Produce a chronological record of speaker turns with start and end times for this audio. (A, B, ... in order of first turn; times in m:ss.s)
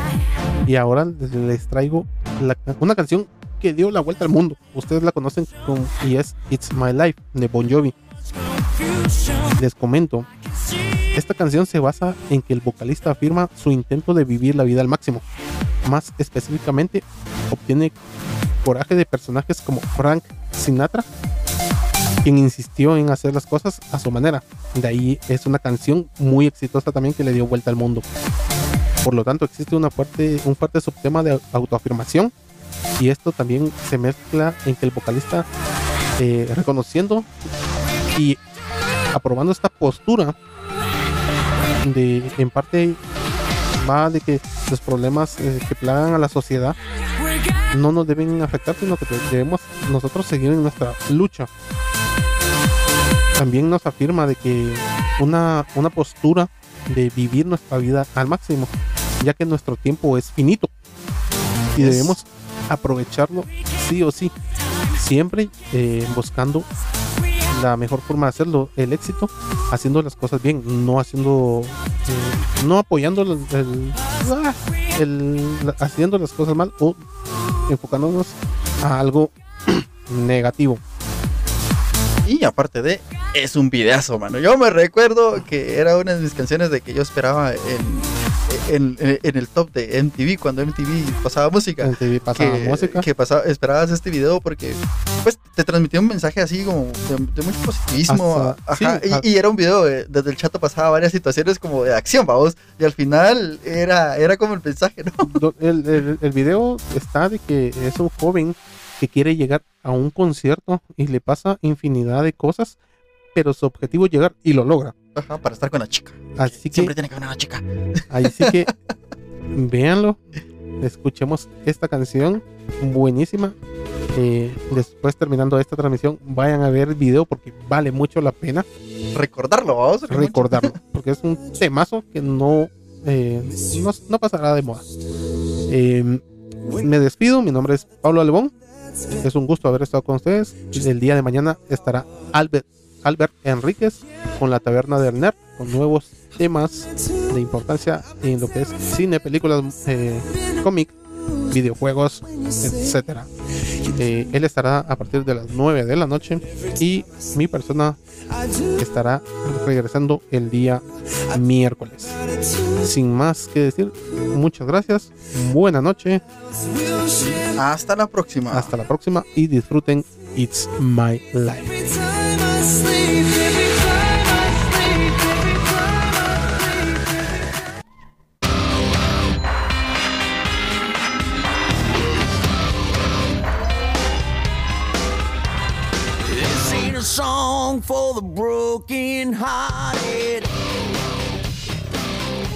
0:00.6-0:07.9 A
0:09.6-0:10.3 A
0:11.1-0:15.2 A
0:15.8-0:18.0 A
0:18.6-0:21.1 A
0:22.2-0:28.0 A
0:29.0-0:32.3 A
0:33.0-0:35.4 A
0:36.2-0:37.3 A
0:38.1-0:38.4 A
0:39.1-0:40.4 A
0:41.8-0:43.0 A
0:43.8-0:46.8 A
0:47.7-0:51.5 A
0:53.4-1:00.7 A
1:01.7-1:02.2 B
1:01.8-1:04.3 A
1:04.9-1:06.7 A
1:07.5-1:17.0 A
1:17.7-1:20.8 A
1:22.2-1:45.4 B
1:31.8-1:33.0 A
1:38.1-1:39.2 A
1:45.2-1:52.8 A
1:53.3-1:54.9 A
1:55.1-1:58.7 B
1:56.4-1:56.9 A
1:58.1-1:58.7 A
1:59.5-2:00.2 A
2:00.8-2:03.6 A
2:04.1-2:08.6 A
2:09.1-2:10.7 B
2:10.1-2:14.8 A
2:15.7-2:16.2 A
2:16.8-2:18.5 A
2:19.2-2:30.9 A
2:31.5-2:33.3 A
2:34.0-2:38.0 A
2:38.8-2:42.2 A
2:42.8-2:46.2 A
2:47.1-2:48.7 B
2:48.5-2:51.9 A
3:06.3-3:10.5 C